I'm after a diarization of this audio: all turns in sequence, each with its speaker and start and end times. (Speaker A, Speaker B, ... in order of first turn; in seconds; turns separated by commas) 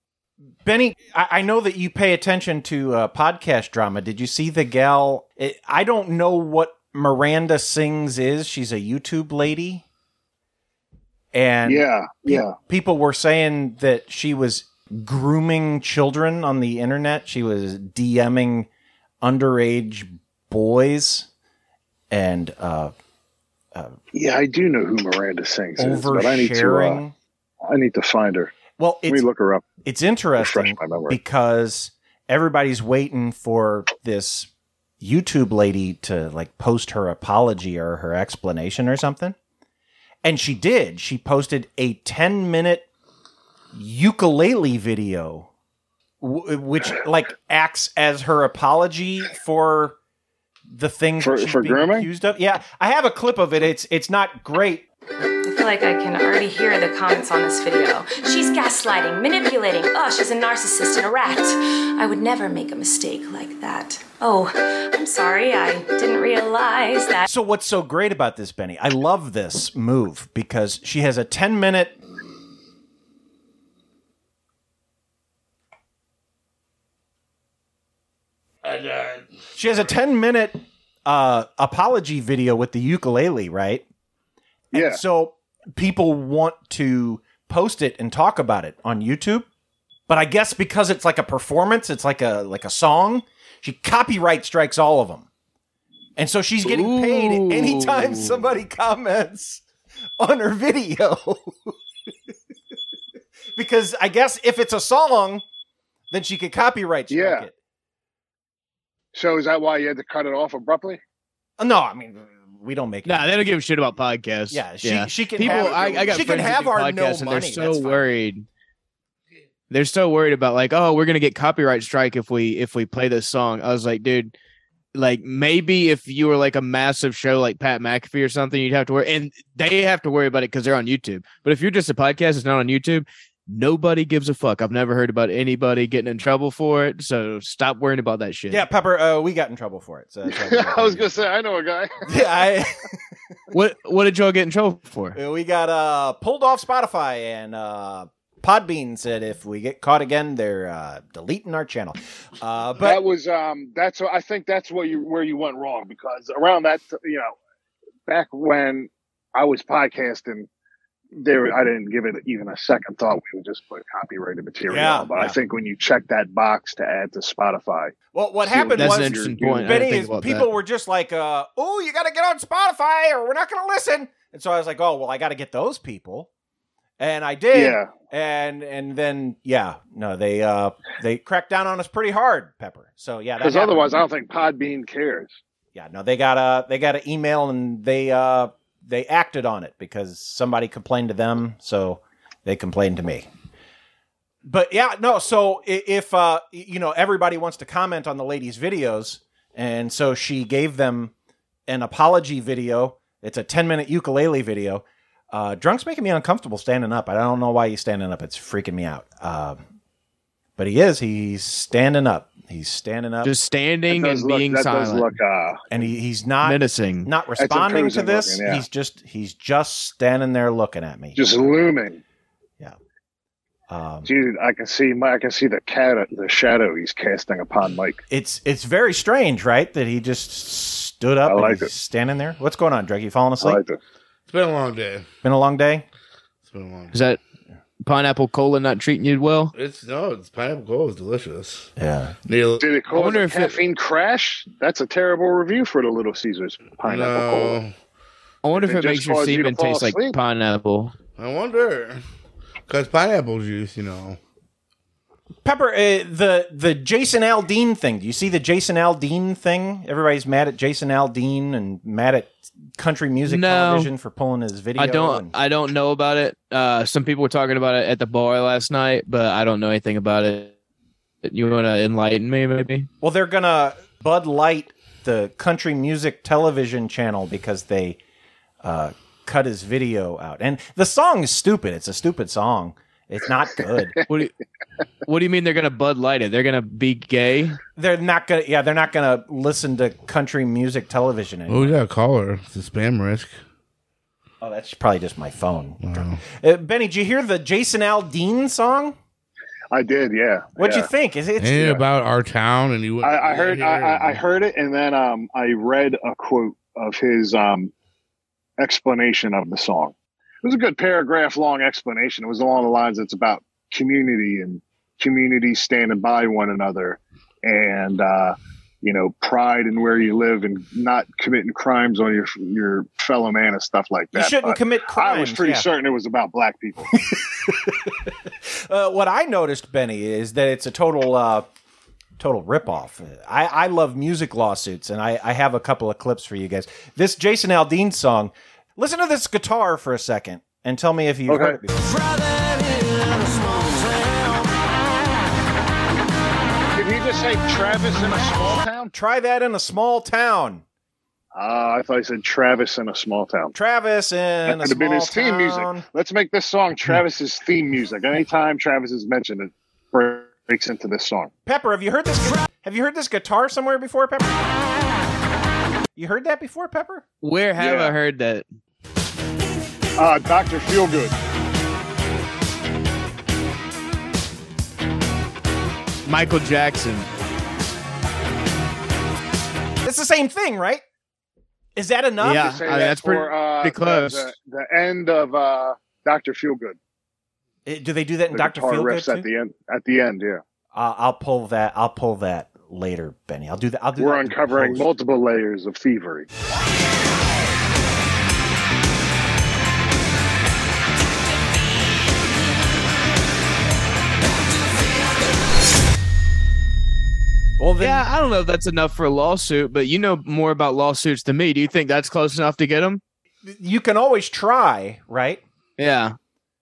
Speaker A: 0.6-9.8, Speaker A: 11.3-18.7, Speaker B: 11.7-12.6, Speaker A: 19.2-21.3, Speaker A: 22.1-22.9, Speaker B: 24.1-27.0, Speaker A: 25.8-27.1, Speaker B: 27.7-28.5, Speaker A: 28.8-29.2, Speaker B: 29.1-29.7, Speaker A: 29.8-34.5, Speaker B: 30.4-31.2, Speaker A: 35.0-39.4, Speaker A: 40.2-42.9, Speaker A: 43.7-45.5, Speaker A: 46.2-50.0, Speaker A: 50.7-54.9, Speaker B: 51.2-52.1, Speaker C: 55.5-67.3, Speaker A: 67.3-72.0, Speaker D: 78.6-79.4, Speaker A: 79.6-83.8, Speaker A: 84.7-89.5, Speaker B: 84.7-85.0, Speaker A: 90.1-95.3, Speaker A: 96.2-99.6, Speaker E: 96.6-98.5, Speaker A: 100.2-101.8, Speaker A: 103.6-105.4, Speaker A: 106.1-107.5, Speaker B: 107.1-107.5, Speaker B: 109.1-111.0, Speaker A: 111.6-113.3, Speaker E: 113.0-118.5, Speaker A: 114.5-118.1, Speaker B: 115.4-116.4, Speaker E: 119.7-124.3, Speaker E: 125.0-138.6, Speaker A: 138.5-141.2, Speaker B: 140.3-142.1, Speaker A: 142.1-142.9, Speaker E: 143.5-145.2, Speaker A: 145.2-153.0, Speaker B: 152.8-157.3, Speaker B: 158.1-160.5, Speaker B: 161.2-167.9, Speaker A: 164.7-165.4, Speaker A: 168.1-176.3, Speaker B: 168.4-169.8, Speaker E: 168.7-170.5, Speaker A: 177.0-183.9, Speaker B: 177.5-177.9, Speaker B: 183.4-185.3, Speaker A: 185.8-193.3, Speaker A: 194.4-201.1, Speaker A: 201.7-209.6, Speaker A: 210.6-213.3, Speaker E: 213.2-215.1, Speaker B: 213.9-215.7, Speaker A: 215.7-221.4, Speaker E: 216.4-217.1, Speaker B: 217.4-218.7, Speaker B: 221.2-222.0, Speaker A: 223.7-224.1, Speaker B: 224.1-228.0, Speaker A: 228.1-233.6, Speaker B: 231.3-231.7, Speaker B: 233.4-233.8, Speaker D: 234.3-235.1, Speaker A: 235.2-235.8, Speaker D: 236.5-236.9, Speaker E: 236.9-237.2, Speaker E: 237.8-239.5, Speaker D: 239.5-241.7, Speaker A: 241.8-242.2, Speaker D: 242.3-242.8, Speaker B: 242.6-247.6, Speaker E: 242.9-243.6, Speaker D: 246.8-247.7, Speaker E: 248.4-250.9, Speaker B: 248.5-250.2, Speaker D: 251.2-252.0, Speaker D: 252.7-254.2, Speaker A: 255.4-265.3, Speaker E: 263.3-263.9, Speaker E: 264.8-270.5, Speaker E: 271.2-272.9, Speaker A: 273.0-278.0, Speaker A: 278.6-284.0, Speaker E: 285.1-287.6, Speaker A: 287.8-291.8, Speaker D: 291.5-293.4, Speaker A: 294.4-299.0, Speaker D: 295.8-296.2, Speaker B: 299.7-300.9, Speaker A: 300.6-301.8, Speaker D: 301.4-304.2, Speaker B: 303.0-307.7, Speaker B: 308.6-326.9, Speaker A: 324.1-325.7, Speaker A: 327.5-327.9, Speaker A: 328.5-331.5, Speaker A: 332.2-342.0, Speaker B: 341.3-341.6, Speaker B: 346.8-348.9, Speaker A: 348.9-350.6, Speaker B: 351.4-353.5, Speaker A: 353.5-355.9, Speaker B: 354.5-361.3, Speaker A: 361.5-364.4, Speaker A: 366.0-367.0, Speaker E: 367.2-368.4, Speaker B: 367.6-368.0, Speaker B: 370.0-371.1, Speaker E: 376.1-377.1, Speaker A: 379.8-380.8, Speaker A: 381.8-382.6, Speaker E: 382.2-384.3, Speaker B: 382.4-386.8, Speaker A: 387.7-389.3, Speaker B: 388.3-390.4, Speaker A: 390.7-394.9, Speaker B: 394.0-396.3, Speaker A: 407.6-408.1, Speaker E: 407.8-413.0, Speaker A: 413.4-415.4, Speaker E: 415.8-416.2